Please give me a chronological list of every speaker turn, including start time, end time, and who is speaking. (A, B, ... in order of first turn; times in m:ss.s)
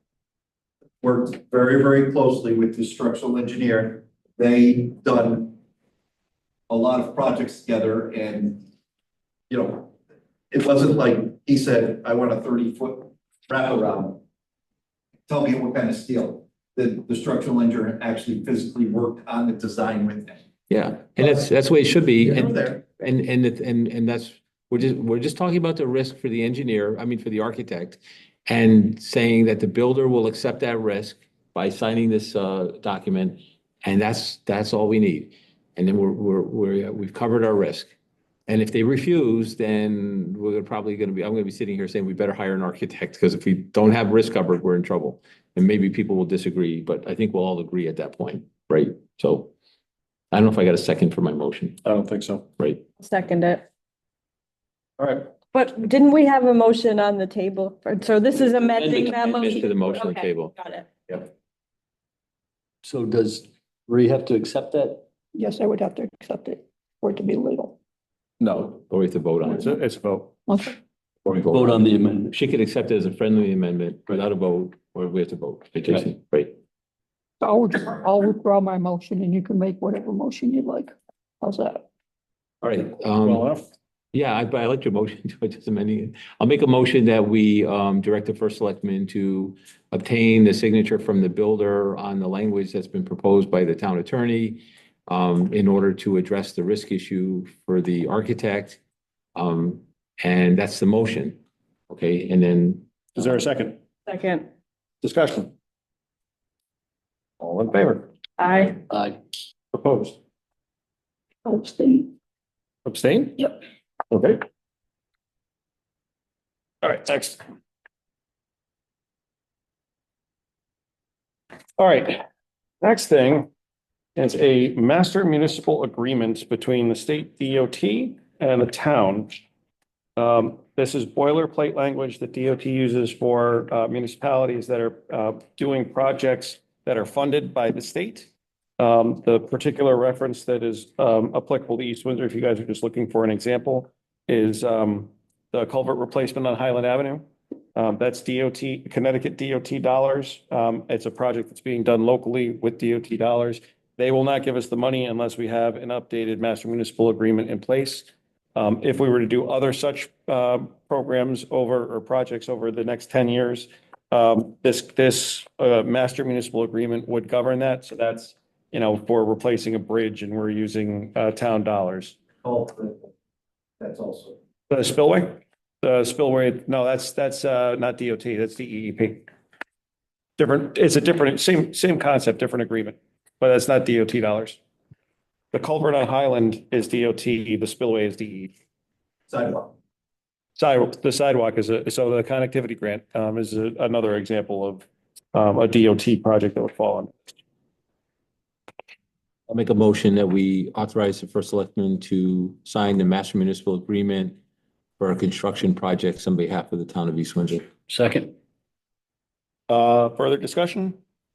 0:01.0-0:05.6 A
0:06.7-0:08.6 A
0:09.5-0:09.9 A
0:10.5-0:14.2 A
0:15.3-0:20.4 A
0:20.7-0:37.9 B
0:21.2-0:21.5 A
0:22.2-0:22.8 A
0:38.5-0:49.5 B
0:50.3-0:51.8 B
0:51.8-0:52.4 C
0:53.0-0:53.7 D
0:55.0-0:55.3 A
0:55.5-1:00.9 D
0:59.0-1:00.6 B
1:02.8-1:07.8 E
1:08.4-1:09.7 B
1:09.5-1:10.3 C
1:10.5-1:10.8 E
1:11.2-1:16.5 B
1:11.5-1:12.3 E
1:17.4-1:21.8 E
1:22.6-1:23.5 B
1:23.2-1:23.6 C
1:24.1-1:38.8 B
1:39.4-1:42.9 B
1:43.2-1:43.8 C
1:44.1-1:44.5 D
1:45.0-1:45.5 C
1:47.4-1:48.1 C
1:48.4-1:48.7 D
1:49.7-1:50.2 C
1:51.5-1:52.1 E
1:52.8-1:53.5 C
1:54.1-1:54.4 C
1:56.8-1:57.4 C
2:01.8-2:02.2 C
2:02.8-2:03.5 C
2:04.2-2:09.4 C
2:10.2-2:52.2 C
2:52.4-2:53.1 A
2:53.8-2:54.4 A
2:54.7-2:59.3 C
3:00.4-3:04.6 C
3:05.5-3:08.5 C
3:09.3-3:09.7 A
3:10.6-3:17.1 C
3:19.5-3:24.4 B
3:25.0-3:27.7 B
3:29.7-3:31.0 C